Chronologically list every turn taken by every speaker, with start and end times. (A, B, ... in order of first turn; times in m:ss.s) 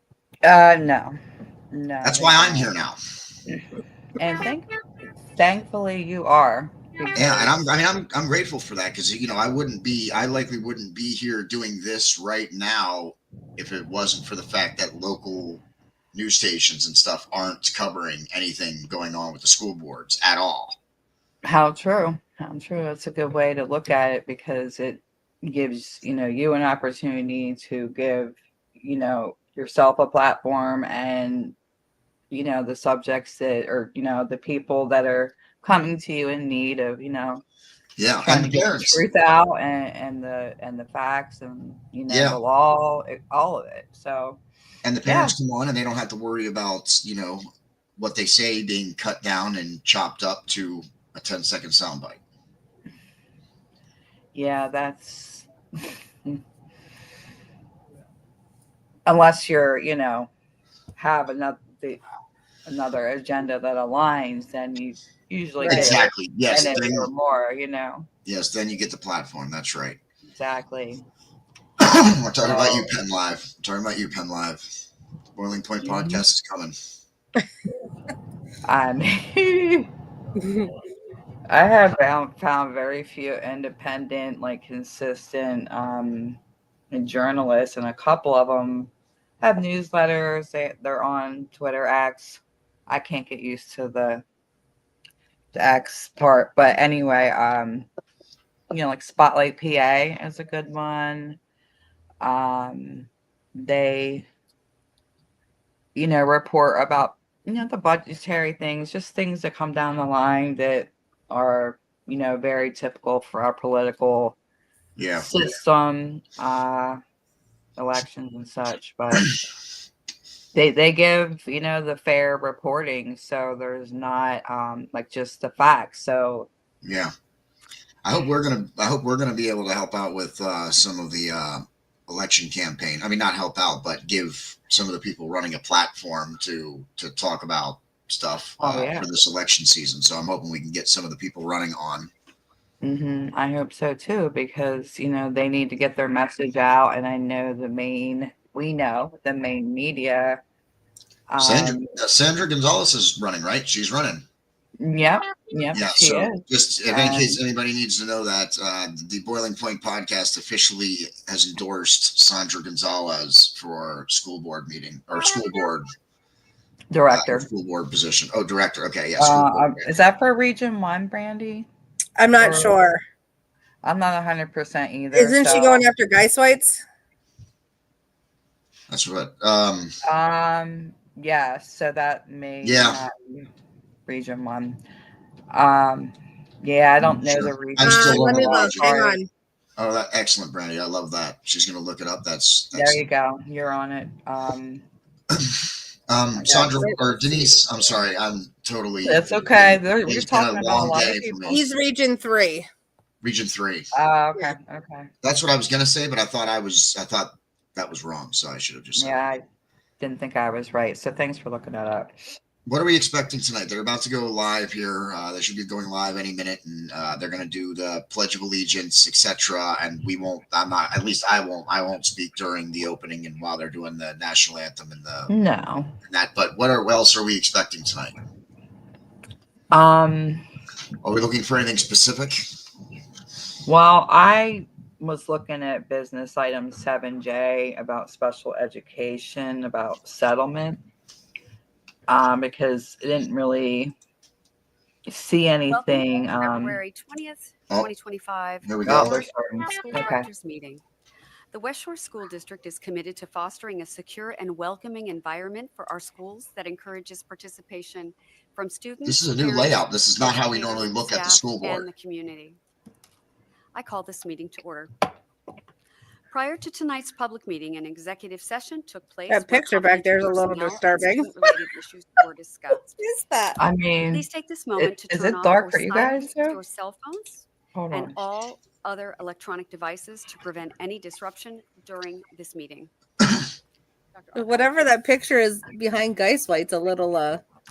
0:00.4-0:01.2 A
0:01.7-0:02.7 A
0:02.0-0:03.0 B
0:04.2-0:07.6 A
0:07.2-0:20.8 B
0:21.4-0:31.6 A
0:32.3-0:37.4 A
0:38.0-0:39.0 B
0:38.2-0:44.4 A
0:42.1-0:42.4 B
0:44.8-0:47.4 B
0:45.0-0:45.4 A
0:48.0-0:52.2 B
0:54.3-0:56.4 A
0:59.1-1:00.3 A
1:01.0-1:02.0 A
1:02.7-1:08.1 A
1:05.6-1:05.9 C
1:05.7-1:07.1 B
1:08.3-1:10.0 B
1:10.3-1:11.0 A
1:11.8-1:14.6 B
1:12.4-1:12.9 A
1:15.4-1:16.8 B
1:15.8-1:16.2 A
1:18.6-1:19.9 A
1:21.5-1:26.4 A
1:26.9-1:34.2 A
1:35.5-1:37.9 A
1:38.7-1:41.4 A
1:42.2-1:44.3 A
1:46.0-1:54.4 A
1:55.0-1:55.3 B
1:55.2-1:57.0 A
1:57.8-1:59.4 A
2:00.5-2:06.5 A
2:06.8-2:07.1 B
2:08.0-2:22.1 B
2:18.6-2:19.1 A
2:22.8-2:30.4 A
2:31.3-2:31.9 A
2:31.4-2:34.2 B
2:34.8-2:37.4 A
2:35.7-2:45.9 B
2:46.9-2:47.5 A
2:47.1-2:49.9 B
2:49.2-2:51.7 A
2:52.2-2:53.0 C
2:52.4-2:52.8 A
2:53.8-2:55.9 A
2:55.1-2:56.8 C
2:58.9-3:00.0 B
3:00.1-3:03.5 A
3:02.6-3:03.0 B
3:04.1-3:04.8 A
3:05.5-3:09.2 A
3:07.2-3:09.0 B
3:07.8-3:09.3 C
3:09.8-3:13.0 B
3:12.7-3:14.8 A
3:15.3-3:21.6 B
3:16.4-3:16.9 A
3:16.6-3:17.4 C
3:19.0-3:21.4 A
3:21.4-3:22.7 C
3:23.2-3:23.9 B
3:23.9-3:25.1 A
3:25.2-3:29.2 B
3:29.0-3:29.4 A
3:30.0-3:32.2 A
3:32.7-3:45.3 B
3:45.3-3:45.9 A
3:46.0-3:48.2 B
3:49.7-3:50.5 A
3:51.0-3:52.4 B
3:53.7-4:00.8 A
4:02.1-4:04.0 A
4:05.1-4:06.8 A
4:05.7-4:10.8 D
4:08.6-4:09.2 B
4:08.8-4:10.3 A
4:11.5-4:22.6 D
4:19.0-4:21.9 B
4:23.7-4:25.1 D
4:26.3-4:33.0 D
4:29.3-4:31.3 C
4:33.0-4:33.6 C
4:33.6-4:34.2 A
4:34.1-4:42.9 D
4:34.8-4:36.6 A
4:37.8-4:38.2 A
4:44.1-4:45.0 D
4:44.4-4:47.4 C